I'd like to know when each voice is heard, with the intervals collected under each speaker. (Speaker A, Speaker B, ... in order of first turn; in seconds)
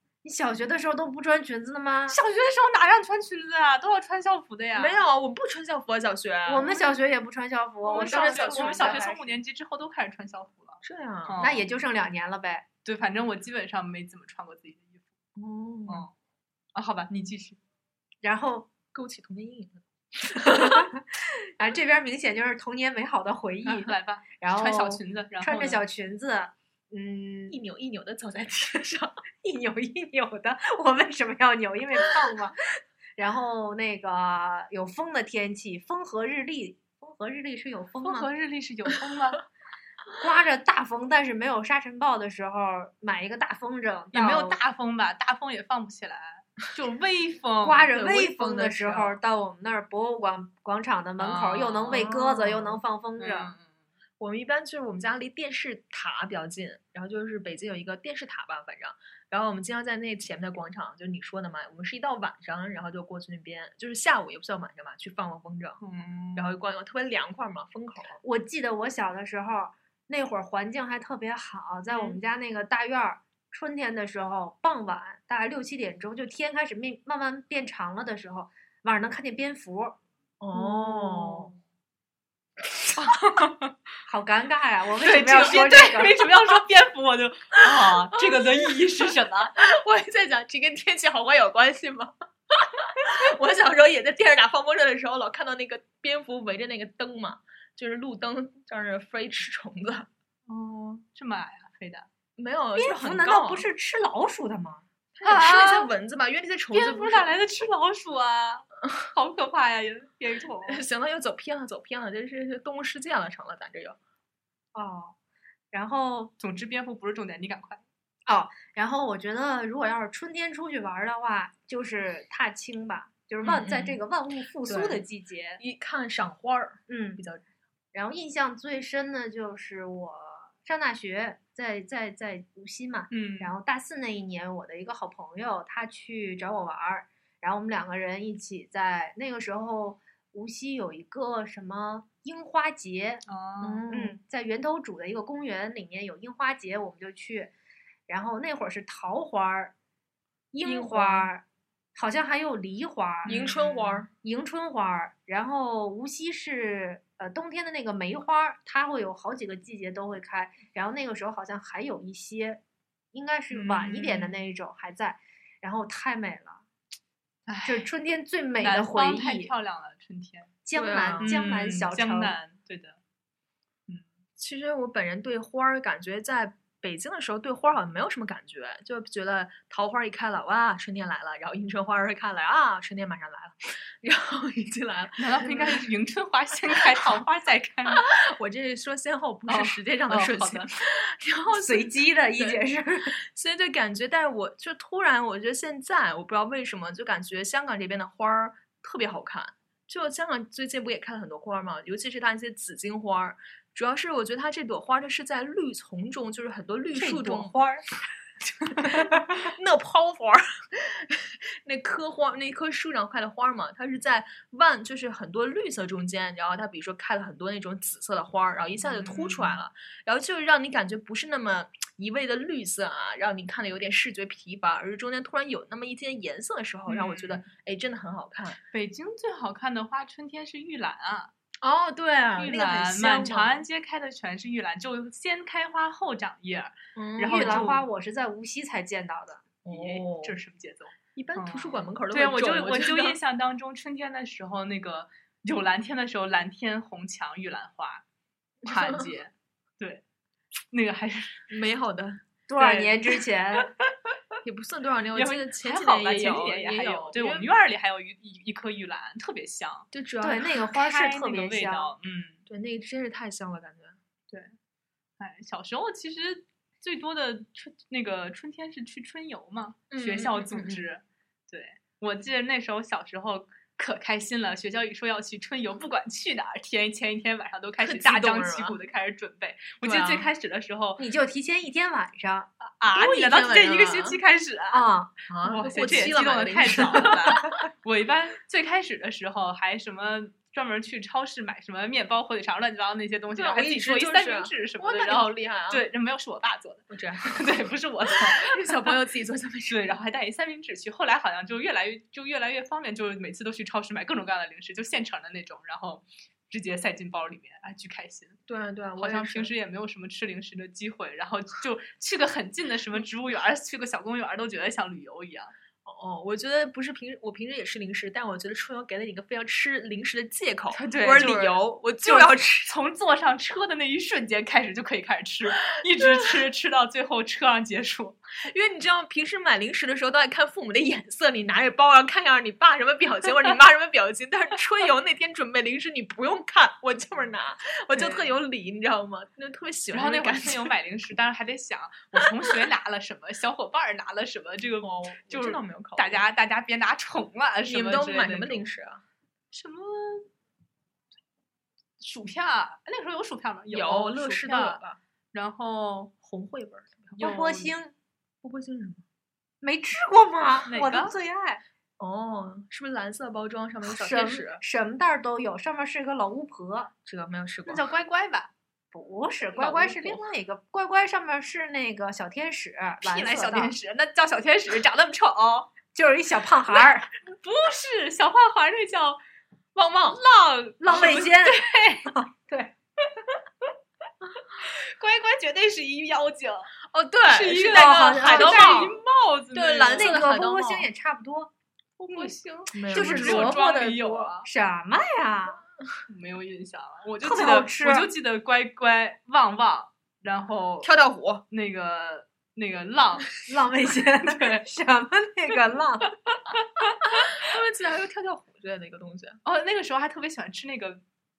Speaker A: 0.2-2.1, 6.5-9.2, 11.4-12.6, 18.2-18.7, 20.4-27.6, 29.4-32.6, 33.2-38.3, 40.2-44.6, 47.6-53.5, 68.2-80.0, 80.5-81.5, 84.1-86.2, 102.8-104.8, 114.7-115.1, 115.7-116.3, 118.3-125.6, 126.9-127.2, 127.9-143.2, 143.9-147.5, 148.1-149.7, 150.5-151.4, 151.9-153.3, 154.2-162.6, 163.1-166.6, 167.6-169.5, 170.6-172.3, 191.5-193.1, 206.9-207.8, 237.3-239.4, 252.5-253.7, 260.2-261.9, 281.0-282.5, 284.7-285.1, 357.2-357.9, 359.6-361.6, 363.8-366.9, 368.9-373.7, 375.9-377.1, 380.8-382.7, 387.6-388.9, 389.9-391.5, 392.9-395.6, 397.2-398.1, 403.5-406.1
Speaker B: 2.1-5.0, 6.5-6.9, 7.8-11.6, 12.8-15.0, 16.7-17.6, 23.6-25.8, 38.0-39.4, 44.1-47.9, 51.2-52.1, 53.2-53.7, 65.8-66.5, 83.0-83.7, 85.0-89.5, 100.5-102.1, 105.2-105.9, 106.7-110.8, 116.4-117.8, 133.1-133.5, 143.3-143.8, 153.2-154.0, 163.5-164.3, 167.5-167.9, 168.6-170.5, 171.2-173.0, 185.2-188.1, 189.5-190.7, 218.8-219.6, 226.9-227.4, 228.7-231.3, 232.4-237.8, 239.7-248.0, 248.6-250.0, 250.7-251.4, 252.6-253.9, 255.1-259.9, 260.7-262.4, 265.2-281.0, 282.6-284.9, 285.4-298.9, 299.7-308.4, 309.0-315.5, 320.7-328.2, 337.9-338.3, 339.9-348.6, 349.5-350.3, 352.0-354.8, 355.3-356.1, 357.2-357.7, 360.7-361.1, 367.6-368.5, 369.6-370.2, 373.0-375.7, 377.2-379.2, 380.1-382.1, 384.6-386.7, 387.3-390.2, 392.0-394.4, 396.1-400.9, 401.5-403.3, 404.2-404.6, 406.9-407.4, 409.4-411.0
Speaker C: 4.7-6.7, 8.0-9.3, 10.8-11.4, 15.3-16.1, 18.9-20.8, 27.5-29.2, 47.9-49.2, 51.9-52.8, 54.2-65.8, 66.3-68.2, 80.4-81.5, 87.7-88.8, 89.5-100.1, 102.4-103.7, 105.1-107.3, 110.7-114.0, 123.4-124.0, 124.7-125.0, 125.6-127.4, 143.6-144.2, 150.6-151.3, 153.2-154.1, 170.7-171.3, 174.4-185.8, 187.9-192.6, 193.2-207.5, 209.4-228.6, 231.6-233.6, 236.9-237.7, 239.6-240.4, 241.2-243.2, 248.7-249.0, 251.5-252.2, 254.4-257.5, 259.9-260.5, 262.5-264.0, 269.9-270.8, 277.8-278.8, 279.8-280.3, 282.9-284.2, 285.3-287.4, 293.3-295.9, 296.9-297.5, 298.1-300.0, 308.5-309.5, 315.8-322.7, 326.0-326.3, 328.4-340.7, 344.8-346.2, 347.7-349.0, 353.7-355.0, 356.2-357.2, 358.4-359.0, 362.0-364.6, 367.0-367.8, 379.8-380.2, 386.9-389.0, 389.5-390.9, 392.7-393.6, 400.8-401.4, 407.2-409.4